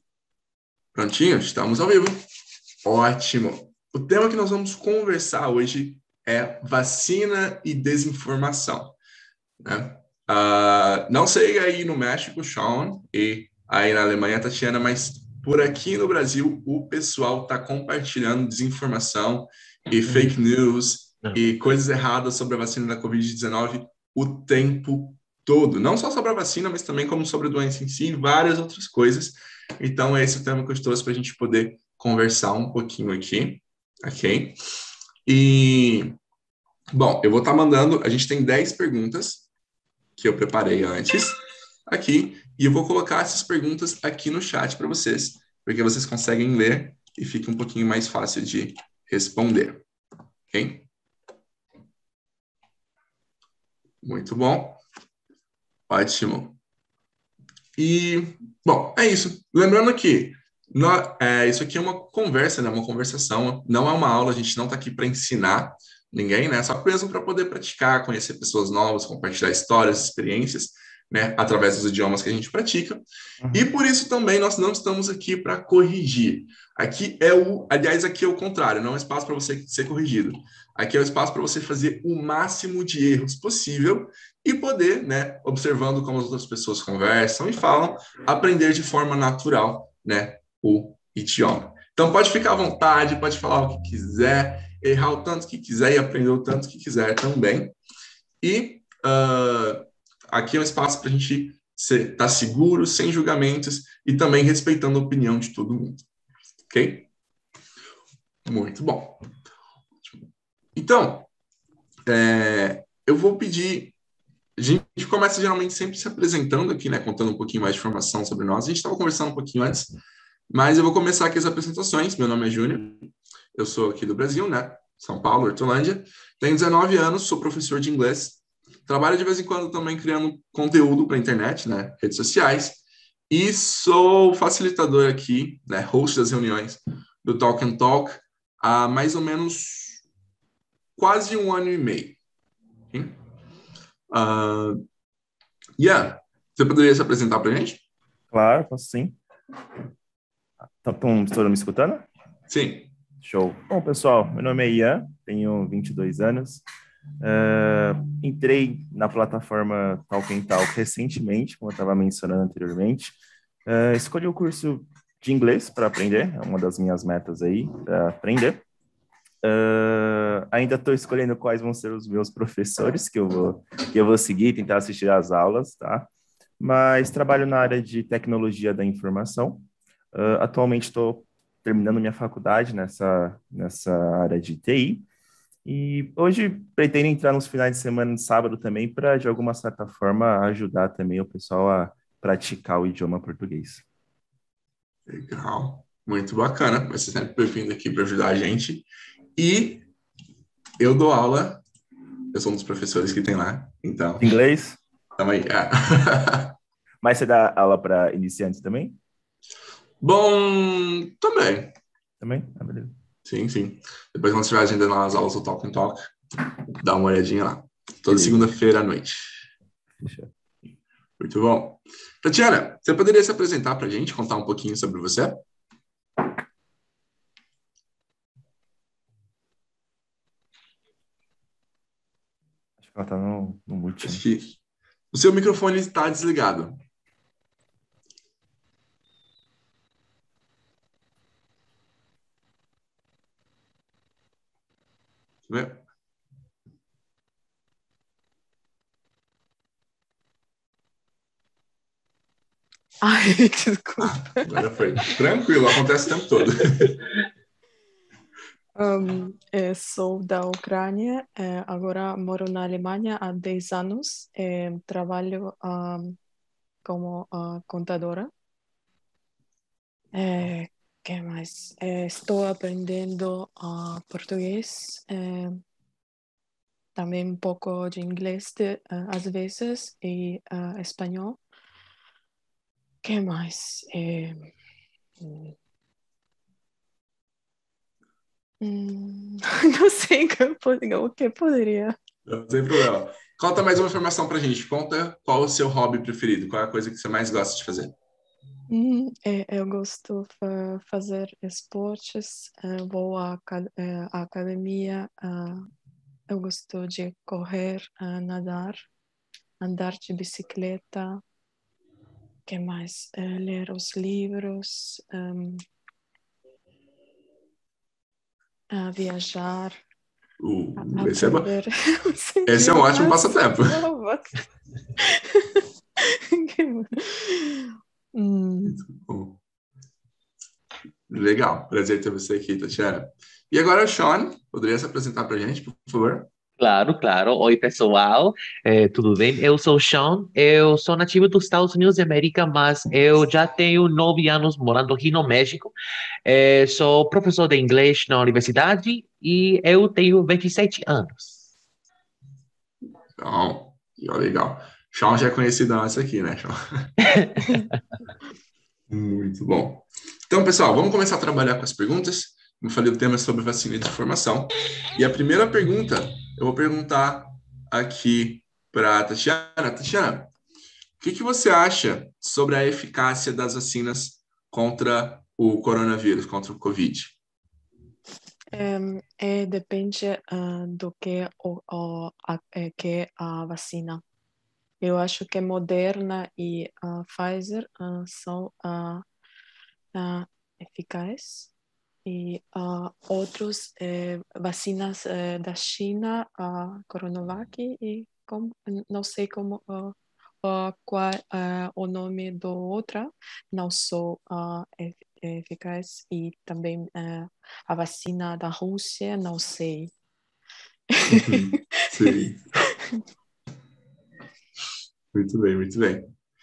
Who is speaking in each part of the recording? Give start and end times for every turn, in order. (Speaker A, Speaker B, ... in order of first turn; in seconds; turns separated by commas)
Speaker A: 0.9-2.3, Speaker A: 2.8-9.0, Speaker A: 9.6-34.6, Speaker A: 35.3-36.1, Speaker A: 36.9-39.5, Speaker A: 40.2-49.8, Speaker A: 50.5-50.9, Speaker A: 54.0-54.8, Speaker A: 55.9-56.6, Speaker A: 57.8-97.8, Speaker B: 73.4-73.7, Speaker A: 98.4-106.0, Speaker A: 106.7-107.1, Speaker A: 108.5-109.2, Speaker A: 110.8-111.3, Speaker A: 112.1-114.0, Speaker A: 114.6-119.9, Speaker A: 120.5-140.1, Speaker A: 141.0-142.2, Speaker A: 142.9-143.2, Speaker A: 144.1-144.8, Speaker A: 145.8-147.8, Speaker B: 148.3-149.2, Speaker B: 150.8-152.1, Speaker A: 152.5-152.9, Speaker B: 153.2-156.6, Speaker B: 157.2-168.6, Speaker B: 169.4-176.1, Speaker B: 176.6-185.1, Speaker B: 185.7-193.8, Speaker A: 195.1-199.9, Speaker A: 200.8-201.6, Speaker A: 202.3-204.3, Speaker B: 204.2-204.8, Speaker A: 205.2-206.6, Speaker B: 207.0-209.0, Speaker A: 210.0-211.8, Speaker B: 212.2-213.0, Speaker A: 213.2-216.1, Speaker A: 216.8-219.3, Speaker B: 218.1-218.6, Speaker B: 220.0-220.3, Speaker A: 221.2-225.4, Speaker B: 232.8-234.2, Speaker A: 234.0-234.6, Speaker A: 235.1-236.8, Speaker A: 245.5-245.8, Speaker C: 253.0-254.4, Speaker A: 254.0-257.0, Speaker C: 258.8-266.2, Speaker C: 266.8-268.3, Speaker C: 270.1-275.6, Speaker C: 277.0-281.4, Speaker C: 283.0-284.5, Speaker C: 285.2-285.6, Speaker C: 288.6-292.0, Speaker A: 292.3-297.9, Speaker C: 298.7-305.7, Speaker C: 306.3-308.9, Speaker C: 309.6-311.2, Speaker C: 312.5-315.6, Speaker C: 318.7-319.8, Speaker A: 320.4-321.5, Speaker C: 320.8-324.4, Speaker A: 322.5-323.8, Speaker C: 325.0-328.8, Speaker A: 328.6-329.4, Speaker A: 331.1-336.3, Speaker D: 336.6-345.7, Speaker D: 346.3-351.4, Speaker A: 353.2-356.9, Speaker D: 357.1-357.6, Speaker A: 358.9-370.3, Speaker A: 371.0-377.2, Speaker C: 378.5-384.0, Speaker C: 384.8-389.1, Speaker C: 389.9-391.5, Speaker C: 392.1-409.9, Speaker C: 410.9-412.1, Speaker A: 411.1-412.4, Speaker C: 412.7-413.0, Speaker A: 415.1-416.1